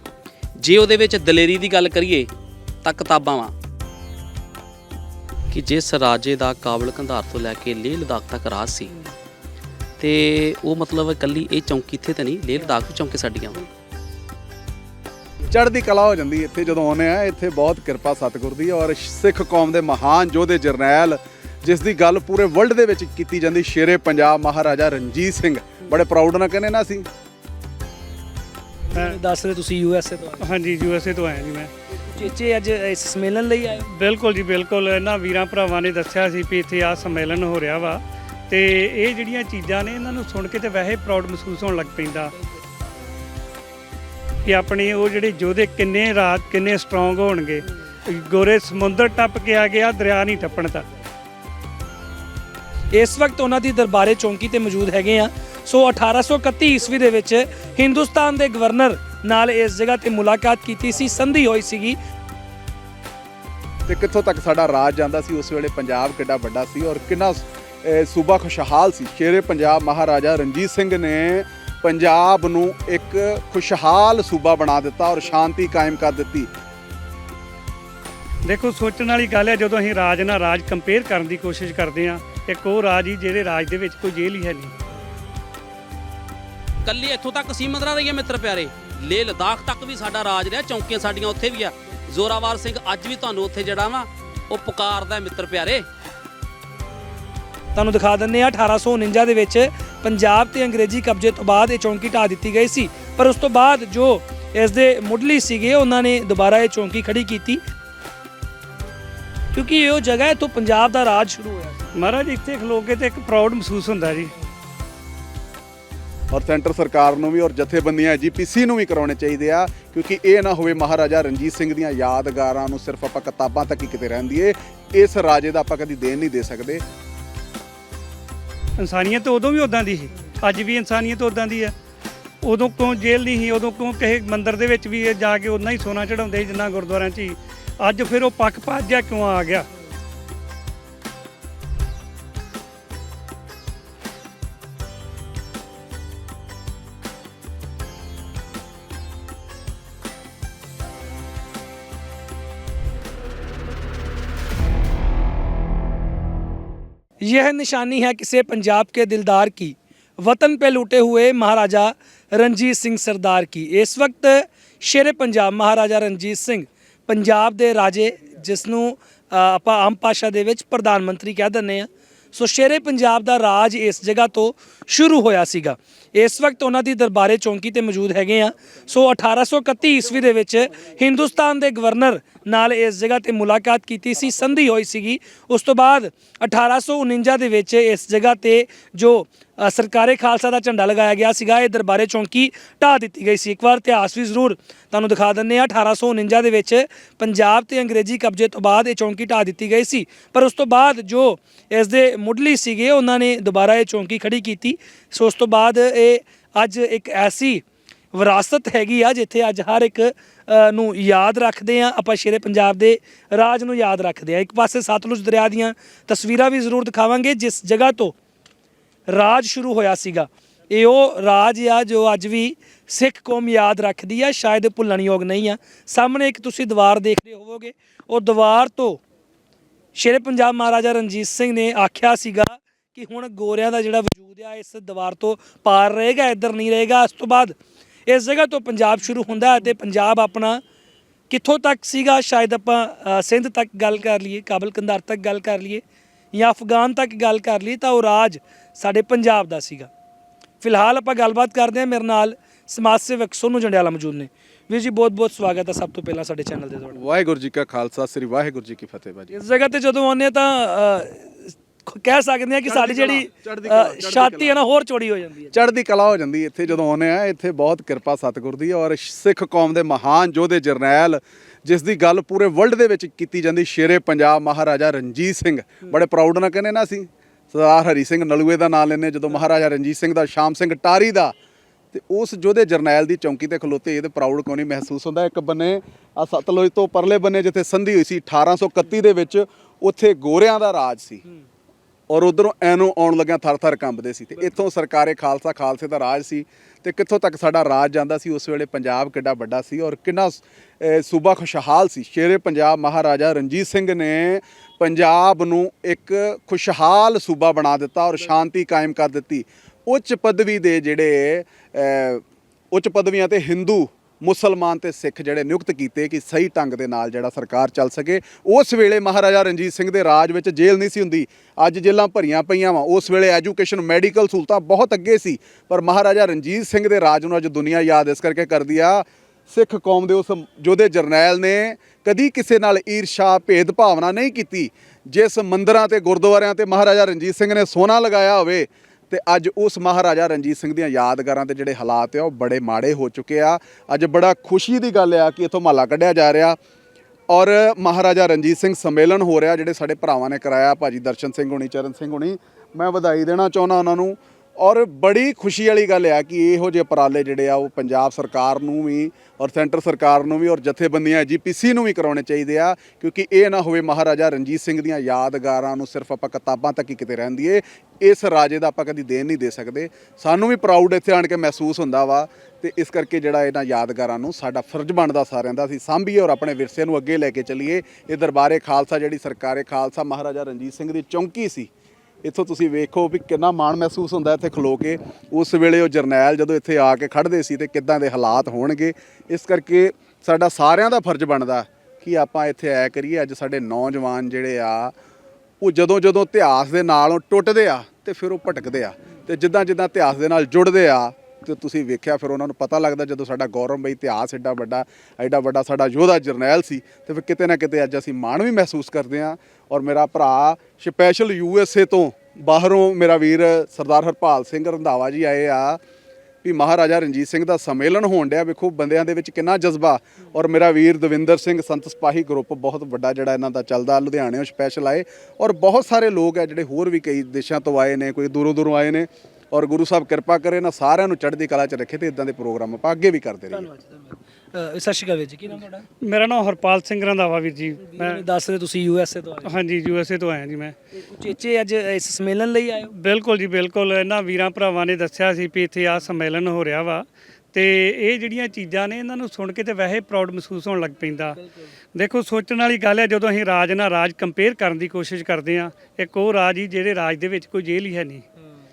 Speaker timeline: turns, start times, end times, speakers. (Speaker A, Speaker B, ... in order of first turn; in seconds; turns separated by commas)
Speaker A: 0.6-2.3, Speaker A: 2.8-3.5, Speaker A: 5.5-8.9, Speaker A: 10.0-13.6, Speaker B: 15.5-27.1, Speaker C: 28.9-30.4, Speaker D: 30.4-31.7, Speaker C: 31.9-33.8, Speaker D: 33.9-42.3, Speaker D: 44.4-50.9, Speaker C: 52.9-62.0, Speaker B: 63.9-76.5, Speaker D: 78.4-84.7, Speaker A: 86.8-95.8, Speaker C: 97.7-107.6, Speaker C: 109.5-111.8, Speaker D: 111.9-114.3, Speaker B: 116.3-126.8, Speaker D: 128.8-131.7, Speaker D: 132.4-139.7, Speaker C: 157.2-218.1, Speaker C: 219.1-229.0, Speaker C: 229.9-240.6, Speaker C: 241.3-245.8, Speaker C: 246.3-249.9, Speaker C: 250.6-257.0, Speaker B: 256.9-259.3, Speaker C: 259.3-265.5, Speaker B: 262.6-264.6, Speaker B: 265.5-281.3, Speaker B: 281.9-291.2, Speaker B: 292.1-346.6, Speaker B: 347.3-381.7, Speaker B: 382.2-394.9, Speaker B: 395.6-415.8, Speaker B: 416.4-433.7, Speaker C: 433.5-435.8, Speaker D: 436.0-438.2, Speaker C: 437.8-439.5, Speaker D: 439.4-440.7, Speaker C: 440.9-442.9, Speaker D: 442.9-451.4, Speaker C: 451.3-451.7, Speaker D: 451.9-458.2